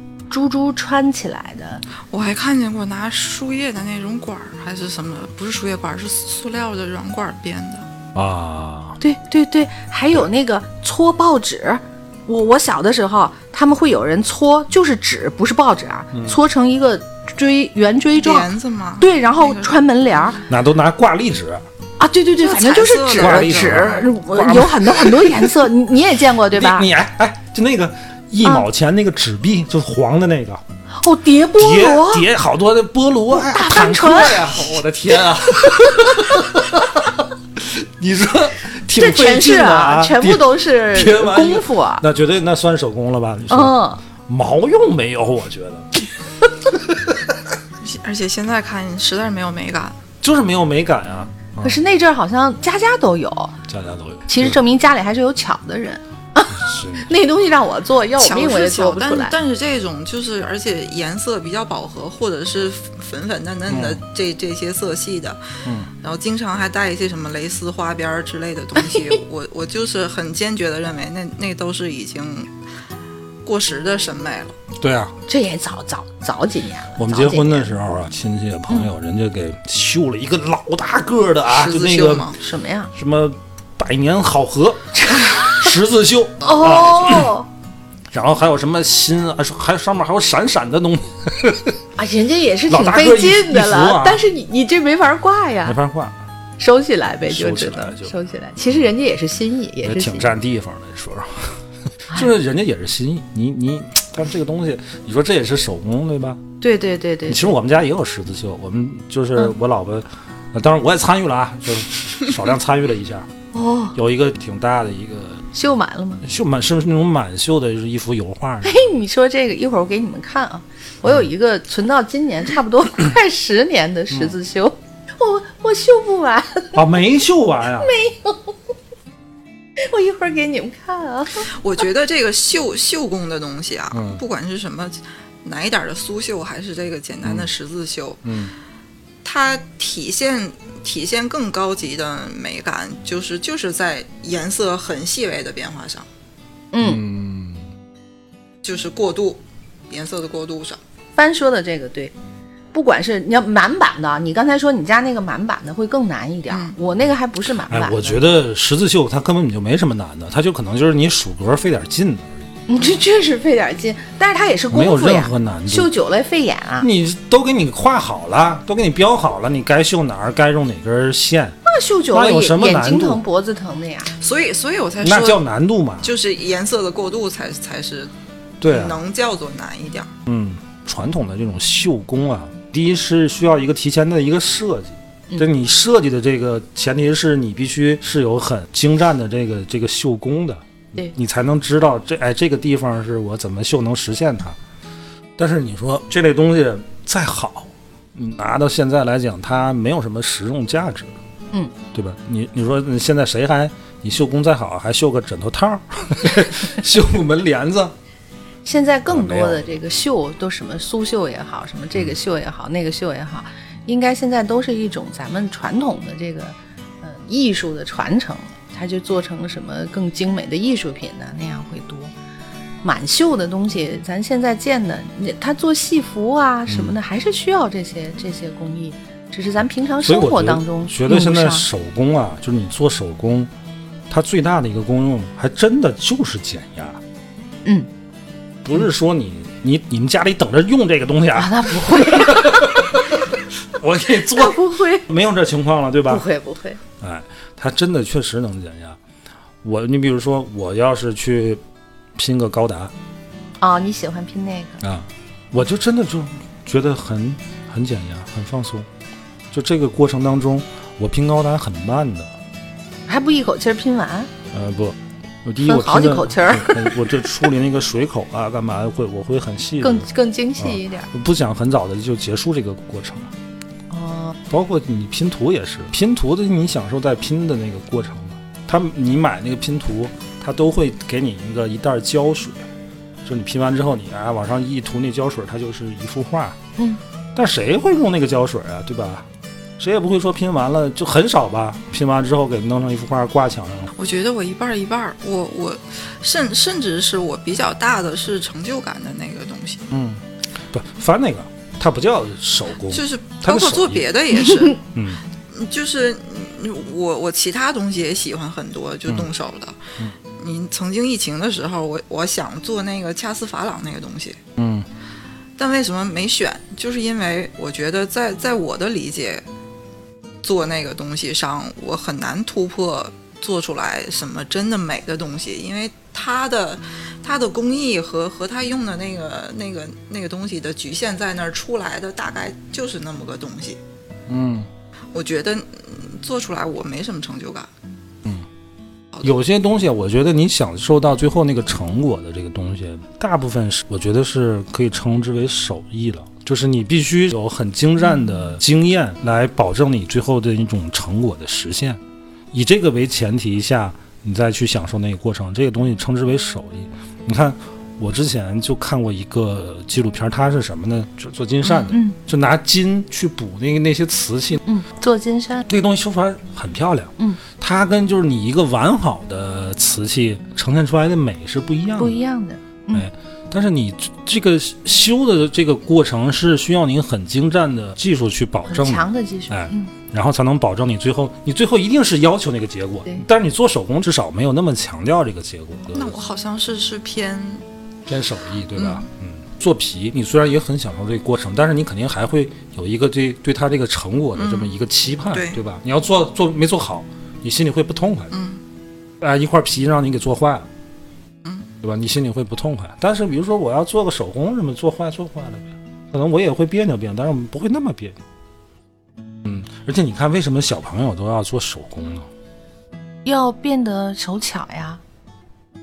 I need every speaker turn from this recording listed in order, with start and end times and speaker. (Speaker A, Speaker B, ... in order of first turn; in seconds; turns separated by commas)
Speaker A: 0.3-1.8, Speaker B: 2.1-7.9, Speaker C: 8.1-9.0, Speaker A: 9.0-20.4, Speaker C: 16.1-16.4, Speaker B: 18.2-19.8, Speaker C: 20.5-21.6, Speaker A: 22.0-26.9, Speaker B: 22.4-24.1, Speaker C: 23.2-25.7, Speaker C: 26.5-30.6, Speaker A: 31.0-32.3, Speaker C: 31.5-46.0, Speaker A: 33.3-34.5, Speaker A: 38.9-42.0, Speaker A: 43.5-44.0, Speaker C: 46.6-47.4, Speaker B: 47.8-50.0, Speaker C: 50.2-51.8, Speaker A: 51.6-53.5, Speaker C: 53.7-54.6, Speaker A: 54.3-59.3, Speaker C: 56.5-57.1, Speaker B: 58.2-65.4, Speaker C: 63.7-64.0, Speaker B: 66.0-72.5, Speaker B: 73.4-74.5, Speaker C: 74.8-75.2, Speaker A: 75.3-77.8, Speaker C: 77.0-82.3, Speaker B: 81.5-82.4, Speaker A: 82.4-82.9, Speaker C: 82.9-87.3, Speaker A: 85.0-85.7, Speaker A: 86.4-87.5, Speaker C: 88.1-91.8, Speaker A: 92.0-95.8, Speaker C: 92.7-94.2, Speaker C: 95.6-96.2, Speaker A: 96.6-100.3, Speaker C: 97.2-98.1, Speaker C: 99.8-106.4, Speaker A: 106.6-107.5, Speaker C: 107.3-113.3, Speaker A: 113.5-114.0, Speaker C: 113.9-115.4, Speaker A: 115.5-116.2, Speaker C: 116.2-118.9, Speaker A: 118.6-126.8, Speaker C: 126.8-127.9, Speaker A: 127.8-128.5, Speaker A: 129.8-131.5, Speaker B: 131.5-138.2, Speaker C: 133.9-134.2, Speaker C: 138.2-138.5, Speaker B: 139.2-146.1, Speaker A: 146.7-147.0, Speaker C: 146.8-147.7, Speaker B: 148.6-150.8, Speaker A: 151.2-152.1, Speaker A: 152.7-158.2, Speaker B: 156.5-156.8, Speaker C: 157.7-162.4, Speaker A: 162.7-166.9, Speaker C: 164.7-165.9, Speaker C: 166.8-171.6, Speaker A: 171.6-174.1, Speaker C: 172.1-173.2, Speaker B: 174.2-175.4, Speaker C: 175.0-176.1, Speaker B: 176.0-178.1, Speaker C: 178.6-179.0, Speaker B: 178.6-180.1, Speaker C: 180.2-194.6, Speaker C: 195.4-201.1, Speaker C: 201.9-207.9, Speaker A: 208.6-222.1, Speaker C: 209.1-209.6, Speaker A: 222.8-231.7, Speaker C: 226.7-227.0, Speaker C: 230.0-233.5, Speaker C: 234.1-237.0, Speaker C: 238.6-246.2, Speaker A: 241.3-242.9, Speaker A: 244.3-245.0, Speaker A: 246.1-246.8, Speaker C: 247.0-249.0, Speaker C: 249.6-251.6, Speaker C: 252.2-252.9, Speaker A: 253.6-254.8, Speaker C: 254.8-258.9, Speaker C: 259.5-262.3, Speaker A: 263.1-264.3, Speaker C: 264.5-273.3, Speaker A: 265.6-267.3, Speaker A: 269.8-271.1, Speaker A: 273.9-274.4, Speaker C: 274.5-282.6, Speaker C: 283.2-286.6, Speaker C: 287.3-289.3, Speaker C: 289.8-293.9, Speaker B: 294.0-299.9, Speaker C: 299.9-304.0, Speaker B: 302.9-304.9, Speaker C: 304.9-305.2, Speaker B: 305.5-309.8, Speaker B: 310.4-314.4, Speaker C: 314.6-314.9, Speaker B: 315.6-319.4, Speaker B: 320.4-333.8, Speaker C: 334.3-334.7, Speaker B: 335.1-337.7, Speaker C: 339.2-352.0, Speaker C: 352.5-364.6, Speaker A: 361.9-362.1, Speaker A: 364.6-365.7, Speaker C: 365.7-372.1, Speaker A: 372.0-373.1, Speaker C: 372.9-386.1, Speaker A: 378.7-379.9, Speaker B: 385.9-387.6, Speaker C: 388.1-398.3, Speaker B: 388.8-389.0, Speaker B: 394.4-394.7, Speaker B: 395.3-395.6, Speaker B: 398.3-398.6, Speaker C: 399.2-400.7, Speaker B: 401.4-401.7, Speaker C: 401.8-408.2, Speaker C: 409.4-412.3, Speaker A: 413.2-415.0